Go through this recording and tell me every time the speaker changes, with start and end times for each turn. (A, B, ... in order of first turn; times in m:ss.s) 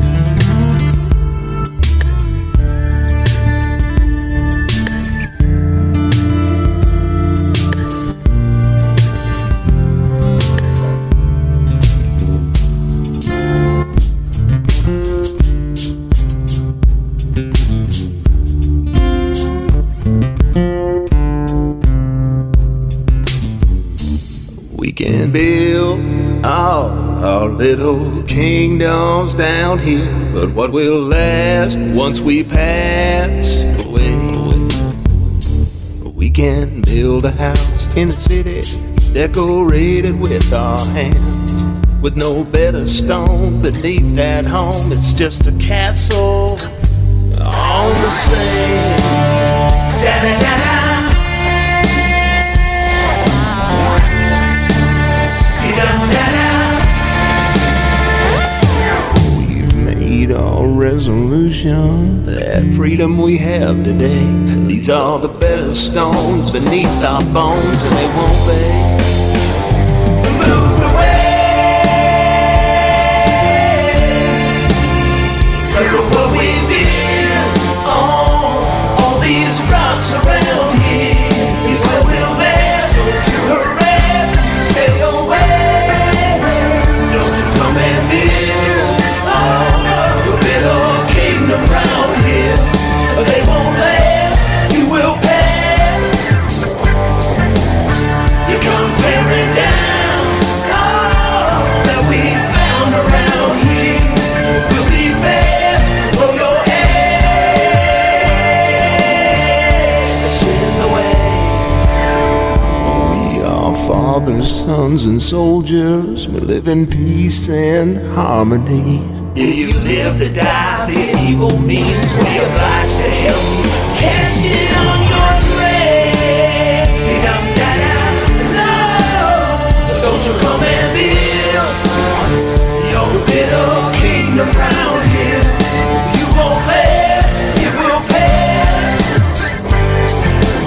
0:24.7-0:34.7 A
0:36.0-0:46.7 A
0:47.4-0:49.3 A
0:50.0-0:51.2 A
0:55.6-0:56.9 A
0:59.2-1:09.0 A
1:10.3-1:11.9 A
1:15.7-1:36.2 A
1:38.5-1:47.7 A
1:50.3-1:51.6 A
1:52.8-2:11.8 A
2:12.8-2:15.6 A
2:16.1-2:19.0 A